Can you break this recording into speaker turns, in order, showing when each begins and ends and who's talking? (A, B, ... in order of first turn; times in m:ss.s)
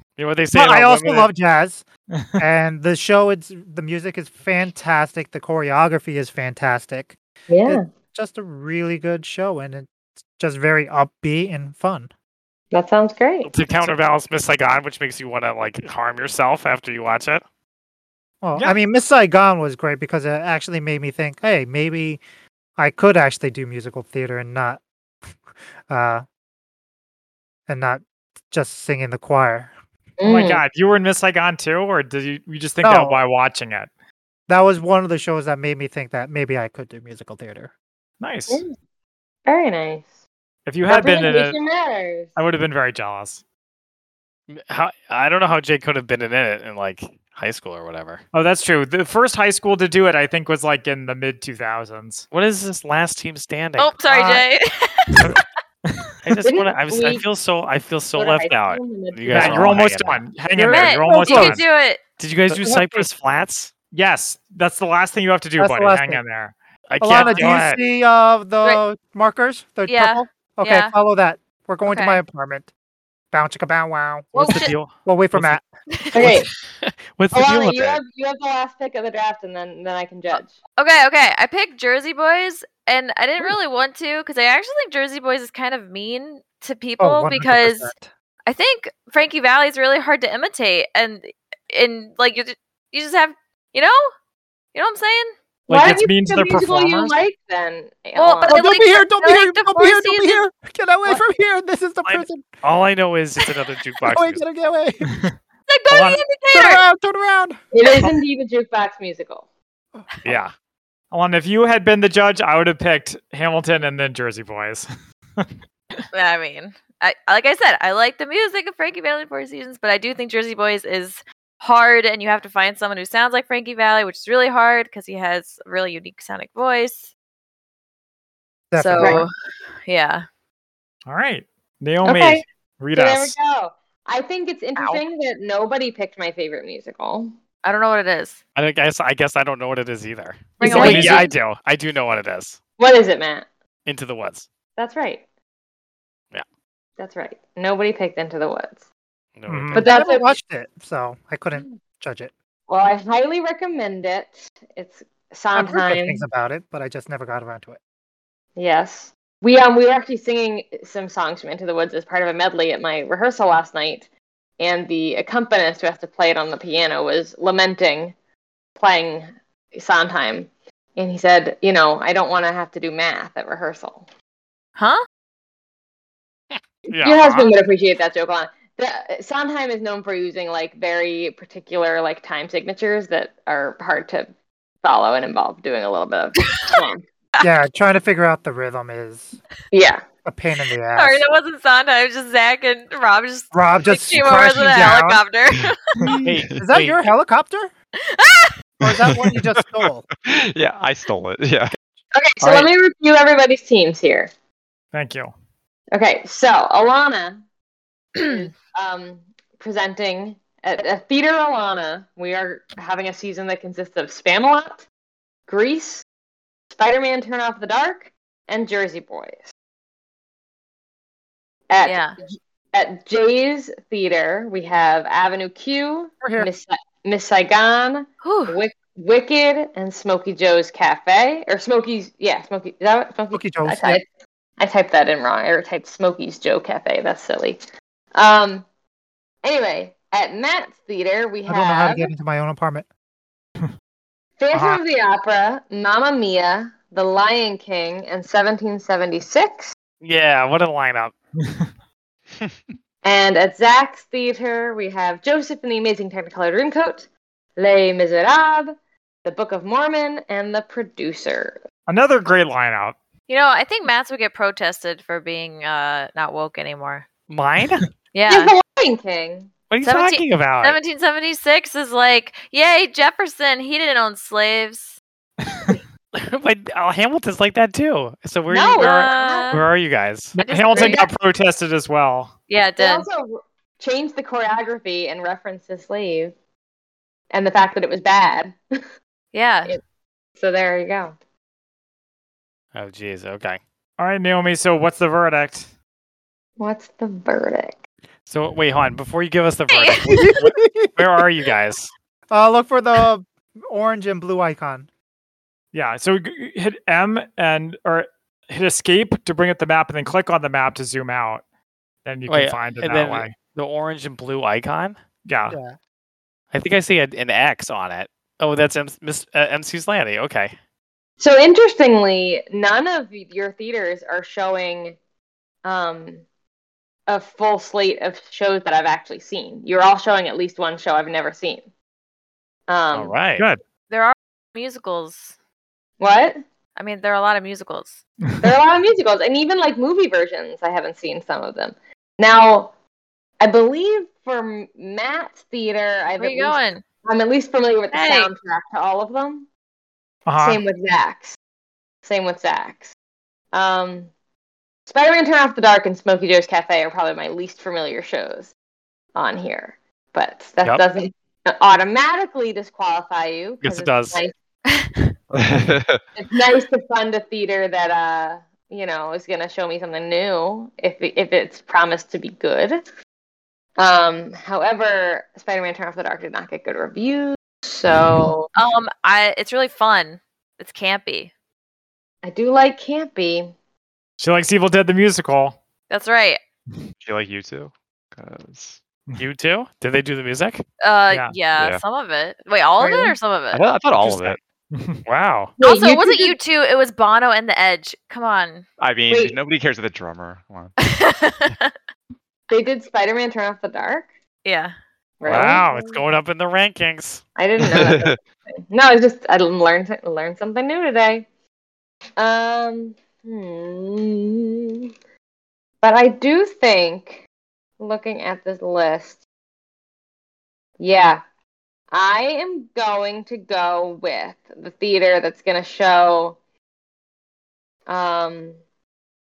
0:00.2-0:01.3 A
0:00.5-0:01.8 B
0:02.1-0:02.4 C
0:02.4-0:12.1 B
0:07.5-0:07.8 D
0:12.7-0:13.5 D
0:13.4-0:17.4 A
0:18.4-0:22.2 B
0:22.8-0:24.8 B
0:25.9-0:26.2 B
0:27.7-0:29.7 B
0:30.2-0:30.6 D
0:30.2-0:33.9 C
0:32.8-0:33.2 B
0:34.5-0:37.7 B
0:38.2-0:38.6 C
0:38.5-0:38.7 D
0:39.4-0:40.1 D
0:40.6-0:41.6 C
0:40.9-0:42.3 D
0:42.4-0:43.4 C
0:44.5-0:48.2 A
0:48.3-0:52.2 C
0:52.3-0:54.0 A
0:53.8-0:55.4 E
0:54.1-0:54.4 B
0:55.2-0:56.1 C
0:56.2-1:00.2 A
0:56.4-0:57.3 D
0:58.1-0:59.8 D
0:59.3-1:01.6 C
1:00.5-1:01.6 B
1:00.6-1:02.0 E
1:02.2-1:03.7 A
1:02.5-1:03.1 C
1:03.9-1:06.5 C
1:05.6-1:06.2 B
1:06.9-1:07.8 A
1:07.0-1:12.7 B
1:09.9-1:10.9 E
1:11.8-1:12.2 E
1:13.3-1:15.6 B
1:14.3-1:14.7 E
1:14.3-1:18.0 A
1:15.9-1:16.4 E
1:16.1-1:16.5 D
1:17.3-1:20.6 D
1:20.8-1:27.9 E
1:27.0-1:28.1 B
1:28.4-1:34.1 E
1:34.7-1:35.3 E
1:35.7-1:37.1 C
1:35.7-1:38.6 D
1:38.1-1:40.4 E
1:38.4-1:42.5 B
1:42.0-1:44.4 A
1:44.0-1:45.2 B
1:45.7-1:46.8 E
1:45.9-1:46.2 C
1:46.5-1:47.6 B
1:47.7-1:49.4 D
1:50.2-1:50.5 A
1:51.1-1:55.5 C
1:56.1-2:07.1 E
2:08.7-2:09.2 B
2:08.7-2:09.3 E
2:09.0-2:09.2 D
2:09.8-2:10.2 E
2:11.0-2:13.4 C
2:12.0-2:17.3 D
2:14.8-2:15.0 E
2:17.6-2:18.4 E
2:18.6-2:22.6 A
2:20.6-2:21.3 D
2:20.6-2:21.0 E
2:20.8-2:21.3 C
2:22.8-2:23.5 D
2:23.8-2:24.5 A
2:24.8-2:25.2 D
2:27.0-2:28.8 D
2:29.4-2:29.8 A
2:29.5-2:29.8 C
2:29.7-2:32.3 B
2:29.7-2:30.3 D
2:32.7-2:36.2 D
2:35.5-2:37.8 B
2:38.6-2:44.1 D
2:44.6-2:48.1 D
2:48.8-2:54.0 D
2:56.5-2:57.5 A
2:57.0-3:04.3 D
3:04.8-3:07.0 D
3:07.4-3:09.4 B
3:09.7-3:10.0 D
3:10.2-3:11.2 B
3:11.0-3:15.9 E
3:13.5-3:15.2 B
3:16.0-3:17.7 B
3:16.2-3:17.0 A
3:18.1-3:18.5 E
3:18.8-3:20.0 B
3:18.8-3:19.6 F
3:20.2-3:21.7 F
3:22.1-3:24.3 D
3:24.9-3:25.3 C
3:25.9-3:27.4 D
3:28.1-3:34.8 D
3:35.5-3:36.0 D
3:36.7-3:39.5 D
3:41.7-3:42.0 D
3:41.8-3:42.1 E
3:42.7-3:54.0 D
3:46.2-3:46.5 B
3:48.2-3:48.6 E
3:53.3-3:54.0 B
3:54.6-3:57.6 D
3:58.1-3:58.6 D
3:59.4-4:02.1 D
4:01.5-4:02.8 B
4:04.4-4:09.7 D
4:04.5-4:04.8 C
4:10.0-4:11.1 A
4:11.4-4:11.7 C
4:13.0-4:18.7 D
4:19.2-4:21.6 D
4:21.9-4:23.0 C
4:23.3-4:27.0 E
4:27.3-4:27.8 A
4:28.1-4:28.5 E
4:28.3-4:29.5 D
4:29.7-4:30.8 A
4:29.8-4:35.0 E
4:35.4-4:35.8 C
4:36.1-4:40.4 A
4:38.5-4:39.5 D
4:38.8-4:39.6 E
4:40.3-4:42.3 C
4:40.4-4:41.0 E
4:40.7-4:41.1 D
4:42.5-4:43.1 E
4:42.8-4:46.3 D
4:47.3-4:48.6 D
4:49.3-4:49.8 E
4:50.4-4:51.1 D
4:52.7-4:53.6 A
4:54.0-4:55.7 C
4:56.6-4:57.8 D
4:58.3-5:01.9 A
4:59.7-5:00.3 E
5:00.0-5:01.2 B
5:02.3-5:04.9 B
5:05.7-5:11.4 C
5:12.0-5:13.3 C
5:12.3-5:15.0 A
5:15.2-5:15.6 C
5:15.5-5:15.8 B
5:16.5-5:20.5 A
5:21.2-5:25.0 D
5:25.6-5:26.2 D
5:27.1-5:31.7 D
5:32.7-5:33.1 D
5:32.9-5:33.5 A
5:33.9-5:35.3 E
5:36.0-5:36.4 D
5:36.8-5:38.0 E
5:38.4-5:42.7 D
5:43.4-5:49.5 D
5:46.2-5:46.8 E
5:47.9-5:48.3 E
5:50.3-5:50.6 C
5:50.4-5:51.4 D
5:52.0-5:52.9 D
5:53.5-5:54.1 D
5:54.9-5:58.5 D
5:59.1-6:04.3 D
6:03.6-6:04.2 A
6:04.7-6:04.9 E
6:05.3-6:06.0 F
6:06.2-6:12.8 D
6:13.8-6:18.5 D
6:18.5-6:21.3 E
6:22.2-6:23.5 D
6:24.2-6:25.6 C
6:25.9-6:26.4 E
6:27.0-6:28.8 F
6:29.2-6:30.6 A
6:30.8-6:33.6 E
6:31.6-6:31.8 F
6:32.8-6:33.2 D
6:33.5-6:34.4 F
6:34.0-6:34.3 A
6:34.7-6:35.0 C
6:35.0-6:35.5 A
6:35.6-6:36.4 D
6:35.6-6:38.6 E
6:38.8-6:40.7 F
6:39.1-6:39.4 D
6:40.8-6:41.7 E
6:42.5-6:44.1 D
6:44.4-6:44.7 E
6:45.2-6:46.0 D
6:45.2-6:47.2 A
6:47.4-6:51.2 D
6:47.6-6:48.2 F
6:52.2-6:54.6 D
6:55.8-6:57.2 D
6:57.8-6:59.2 D
7:00.8-7:01.2 D
7:01.9-7:06.4 D
7:07.9-7:08.6 D